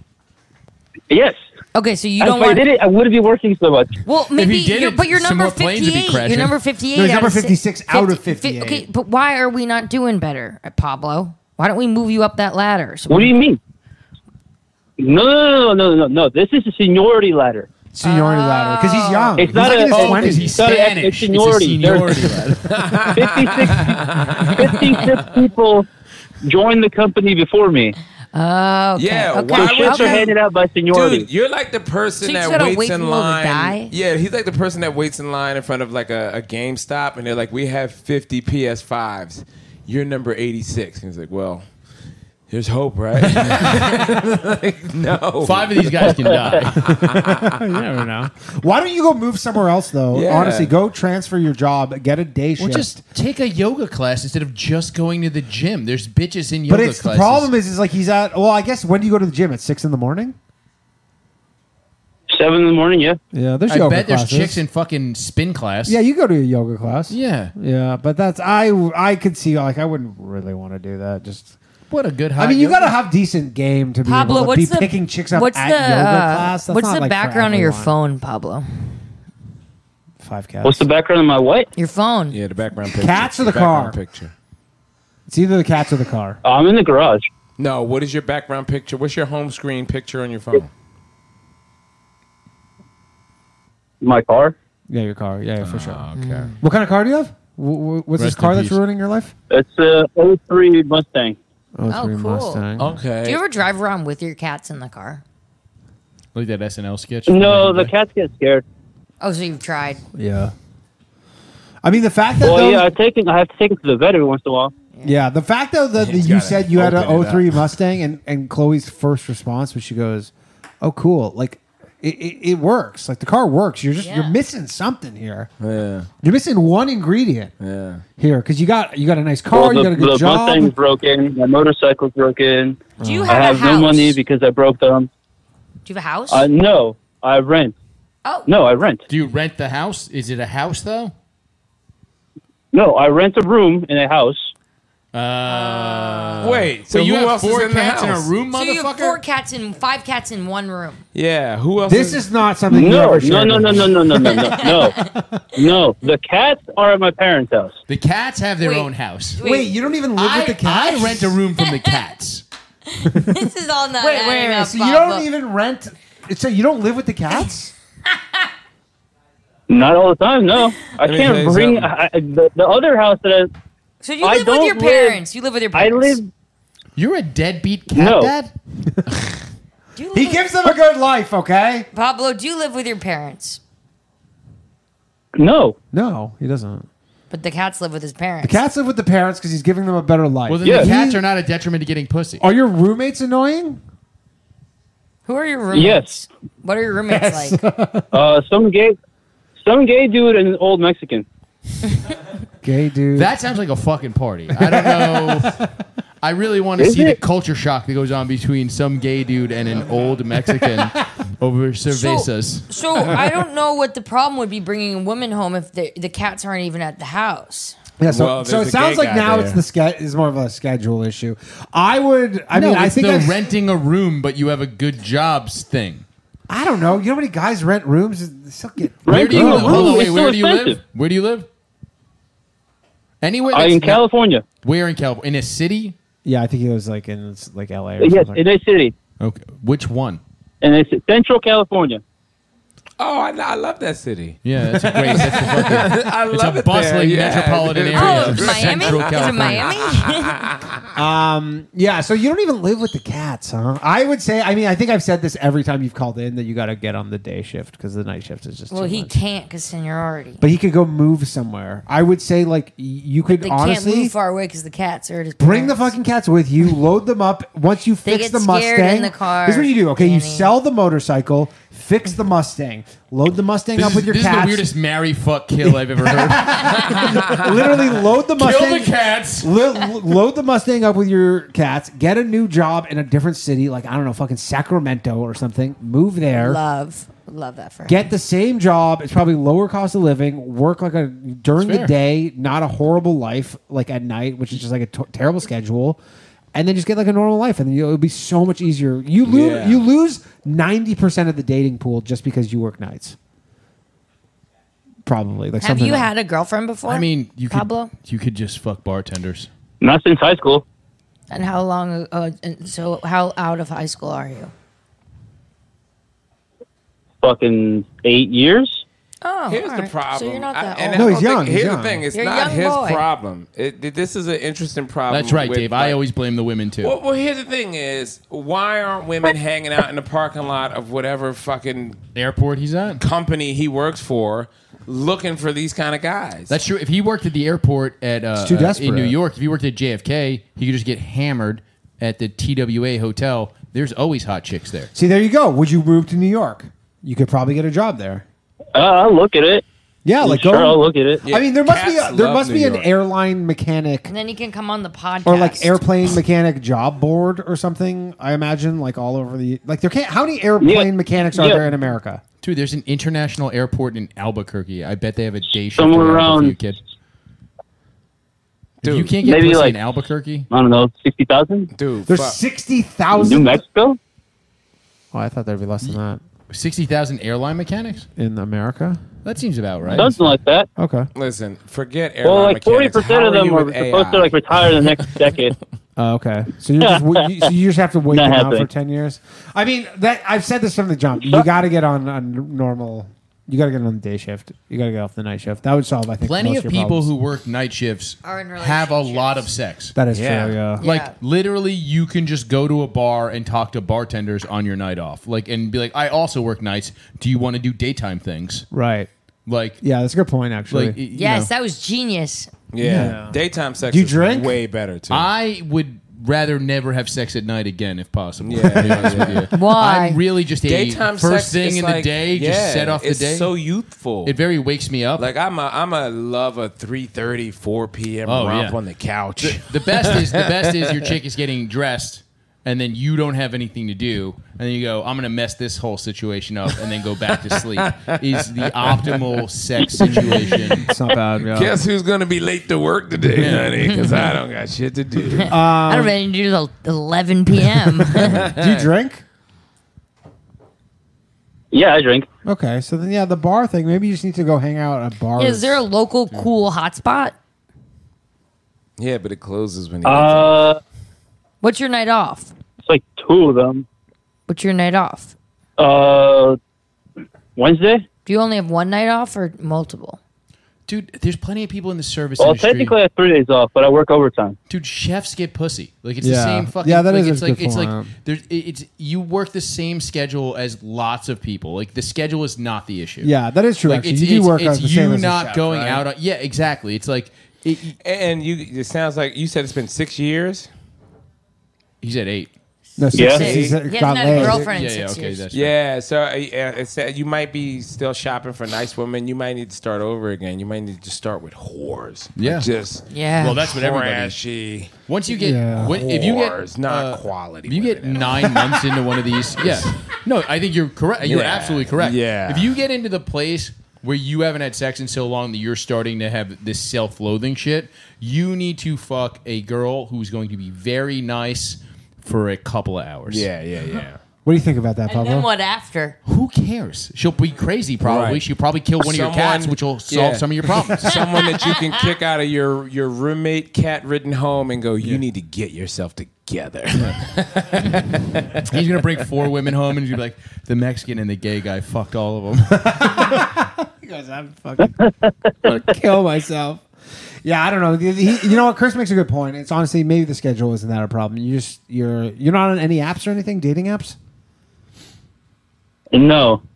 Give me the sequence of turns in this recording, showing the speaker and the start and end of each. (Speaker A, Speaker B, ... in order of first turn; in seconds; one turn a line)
Speaker A: 1.1-1.4
Speaker B: 1.8-2.6
Speaker A: 2.2-4.0
Speaker B: 4.0-13.3
Speaker C: 4.3-6.6
Speaker D: 6.9-8.8
Speaker A: 13.1-13.6
Speaker A: 15.0-17.7
Speaker D: 17.9-20.6
Speaker B: 18.0-19.6
Speaker A: 19.4-22.3
Speaker C: 19.9-22.7
Speaker E: 22.6-24.9
Speaker A: 23.1-23.9
Speaker A: 24.6-25.9
Speaker A: 26.4-27.9
Speaker B: 28.3-30.3
Speaker E: 29.0-30.3
Speaker A: 29.6-31.3
Speaker E: 30.9-41.7
Speaker B: 32.2-33.9
Speaker E: 42.5-47.6
Speaker C: 45.4-46.9
Speaker D: 46.8-53.0
Speaker E: 50.1-50.7
Speaker C: 52.6-57.5
Speaker D: 56.7-60.4
Speaker A: 62.3-63.2
Speaker D: 63.3-64.6
Speaker C: 63.7-66.0
Speaker D: 65.9-71.6
Speaker C: 67.1-67.5
Speaker C: 71.9-73.0
Speaker D: 72.4-77.9
Speaker B: 74.0-78.9
Speaker D: 80.2-80.9
Speaker A: 80.6-81.7
Speaker B: 81.8-82.4
Speaker E: 82.3-84.3
Speaker D: 83.0-84.0
Speaker D: 85.3-86.4
Speaker A: 86.4-87.3
Speaker E: 87.6-90.7
Speaker A: 94.0-94.5
Speaker D: 94.9-96.0
Speaker E: 95.6-96.5
Speaker B: 96.2-96.5
Speaker D: 96.6-99.3
Speaker C: 98.2-98.8
Speaker A: 99.5-101.4
Speaker D: 101.8-102.9
Speaker B: 101.9-102.7
Speaker E: 102.8-103.4
Speaker B: 103.2-105.2
Speaker C: 106.3-107.9
Speaker A: 107.3-108.6
Speaker B: 109.2-110.0
Speaker D: 110.1-110.5
Speaker D: 111.8-112.9
Speaker A: 112.4-114.7
Speaker D: 115.0-125.5
Speaker E: 116.0-117.7
Speaker B: 124.0-124.4
Speaker E: 125.6-126.1
Speaker D: 126.2-127.5
Speaker E: 127.6-128.0
Speaker D: 128.2-130.7
Speaker A: 129.5-135.1
Speaker D: 133.0-133.4
Speaker B: 133.0-134.2
Speaker B: 135.9-136.5
Speaker A: 136.3-137.7
Speaker B: 138.2-138.5
Speaker A: 138.5-139.0
Speaker C: 139.1-141.1
Speaker A: 142.7-144.5
Speaker C: 145.1-149.2
Speaker B: 145.4-146.7
Speaker E: 146.4-148.4
Speaker B: 148.5-151.0
Speaker E: 151.1-152.2
Speaker D: 151.9-155.4
Speaker A: 152.7-154.9
Speaker B: 154.2-155.1
Speaker A: 155.6-157.8
Speaker C: 157.9-159.4
Speaker B: 158.6-159.7
Speaker D: 159.4-161.3
Speaker C: 160.2-162.4
Speaker B: 161.6-162.0
Speaker B: 162.9-165.3
Speaker D: 163.1-163.4
Speaker D: 164.0-167.7
Speaker A: 169.7-173.5
Speaker E: 171.0-171.9
Speaker B: 174.0-176.2
Speaker A: 174.2-175.2
Speaker A: 175.7-176.3
Speaker C: 177.0-178.5
Speaker A: 177.9-178.3
Speaker D: 178.9-179.2
Speaker B: 180.0-180.7
Speaker D: 180.1-181.9
Speaker B: 181.9-183.6
Speaker A: 185.4-185.8
Speaker D: 185.9-186.9
Speaker B: 187.3-188.6
Speaker D: 188.4-191.2
Speaker C: 190.5-192.4
Speaker A: 190.7-190.9
Speaker D: 192.4-193.8
Speaker B: 195.3-197.6
Speaker A: 195.7-196.2
Speaker D: 197.1-198.1
Speaker A: 198.1-199.0
Speaker A: 199.6-201.3
Speaker D: 202.6-203.3
Speaker C: 203.1-205.6
Speaker D: 204.6-205.7
Speaker C: 206.2-212.7
Speaker A: 206.8-207.2
Speaker D: 210.1-210.9
Speaker B: 211.9-217.8
Speaker D: 218.0-223.5
Speaker E: 218.1-219.6
Speaker C: 222.5-226.1
Speaker D: 226.5-230.2
Speaker A: 229.1-230.8
Speaker C: 229.1-231.5
Speaker C: 233.2-234.0
Speaker A: 233.5-234.4
Speaker C: 234.6-236.0
Speaker D: 236.2-238.4
Speaker A: 238.0-238.9
Speaker C: 239.2-240.2
Speaker A: 240.6-242.0
Speaker E: 243.0-250.7
Speaker C: 244.4-249.7
Speaker B: 247.9-250.5
Speaker D: 250.9-259.2
Speaker B: 258.7-260.4
Speaker D: 260.4-264.1
Speaker B: 263.4-266.0
Speaker D: 265.4-274.7
Speaker B: 268.1-270.5
Speaker C: 273.8-279.5
Speaker D: 275.6-286.6
Speaker B: 286.3-288.1
Speaker D: 287.9-296.0
Speaker C: 291.6-291.9
Speaker D: 296.5-303.2
Speaker E: 299.2-299.8
Speaker D: 305.1-306.1
Speaker B: 305.6-307.9
Speaker C: 306.9-309.5
Speaker A: 309.8-310.6
Speaker B: 311.3-314.5
Speaker A: 317.2-318.9
Speaker B: 319.2-321.3
Speaker E: 319.5-326.0
Speaker D: 320.9-322.1
Speaker B: 322.1-323.1
Speaker C: 325.1-327.0
Speaker E: 326.8-332.1
Speaker C: 332.1-333.0
Speaker E: 333.0-336.6
Speaker C: 336.5-344.9
Speaker D: 338.4-339.2
Speaker D: 344.9-348.2
Speaker A: 348.8-349.6
Speaker D: 350.1-354.1
Speaker A: 350.2-351.2
Speaker E: 351.2-352.9
Speaker B: 354.1-355.8
Speaker D: 355.2-362.2
Speaker A: 360.6-361.6
Speaker C: 362.4-366.8
Speaker A: 365.8-366.6
Speaker E: 368.8-369.2
Speaker C: 368.8-370.5
Speaker A: 369.2-369.8
Speaker A: 370.5-371.7
Speaker E: 371.7-372.4
Speaker D: 372.1-373.6
Speaker A: 373.1-374.0
Speaker D: 375.1-376.2
Speaker C: 376.5-378.1
Speaker D: 378.2-379.0
Speaker C: 379.2-380.1
Speaker D: 379.9-380.2
Speaker A: 379.9-380.7
Speaker D: 380.8-381.1
Speaker E: 381.1-385.1
Speaker A: 382.2-385.6
Speaker D: 386.0-397.1
Speaker A: 386.8-387.5
Speaker A: 388.1-388.7
Speaker A: 391.2-391.5
Speaker C: 396.2-400.0
Speaker B: 398.2-399.5
Speaker D: 399.9-400.9
Speaker E: 400.1-400.6
Speaker B: 400.8-401.1
Speaker C: 400.8-408.7
Speaker D: 408.7-409.1
Speaker C: 409.5-409.8
Speaker D: 409.8-411.0
Speaker C: 410.7-411.5
Speaker B: 411.1-412.5
Speaker E: 412.7-415.3
Speaker D: 412.8-414.6
Speaker C: 415.1-423.5
Speaker E: 418.4-419.5
Speaker B: 419.5-420.2
Speaker E: 420.6-424.4
Speaker C: 424.2-425.3
Speaker E: 425.2-430.9
Speaker C: 428.3-428.8
Speaker C: 429.4-440.9
Speaker E: 437.3-439.3
Speaker D: 440.0-441.8
Speaker E: 441.5-445.5
Speaker C: 443.3-444.0
Speaker B: 443.9-444.3
Speaker B: 445.3-448.4
Speaker D: 445.5-446.1
Speaker D: 448.2-449.2
Speaker E: 448.4-448.8
Speaker A: 451.7-452.3
Speaker D: 452.5-455.8
Speaker B: 455.4-457.4
Speaker E: 459.0-460.7
Speaker A: 460.0-460.8
Speaker B: 461.6-462.5
Speaker A: 462.8-463.9
Speaker B: 464.5-465.3
Speaker A: 465.8-466.6
Speaker A: 467.6-468.1
Speaker B: 468.3-470.2
Speaker C: 470.9-472.9
Speaker A: 472.4-474.6
Speaker C: 474.7-483.3
Speaker D: 476.2-478.1
Speaker D: 483.2-486.0
Speaker C: 483.8-488.0
Speaker E: 488.0-490.7
Speaker C: 492.0-492.5
Speaker D: 493.0-494.7
Speaker A: 493.2-493.4
Speaker B: 493.2-495.5
Speaker E: 493.4-493.8
Speaker C: 494.6-495.7
Speaker E: 495.5-505.0
Speaker C: 502.4-502.7
Speaker B: 503.1-503.6
Speaker C: 503.4-504.4
Speaker C: 505.1-523.5
Speaker D: 505.4-506.0
Speaker E: 505.8-510.1
Speaker E: 511.2-512.8
Speaker E: 523.3-524.2
Speaker D: 524.5-525.5
Speaker B: 525.1-526.2
Speaker C: 526.2-531.2
Speaker E: 528.0-538.6
Speaker B: 531.1-532.1
Speaker C: 538.7-543.4
Speaker D: 542.8-545.0
Speaker A: 544.8-545.3
Speaker D: 545.6-546.9
Speaker D: 547.4-554.2
Speaker A: 556.1-556.6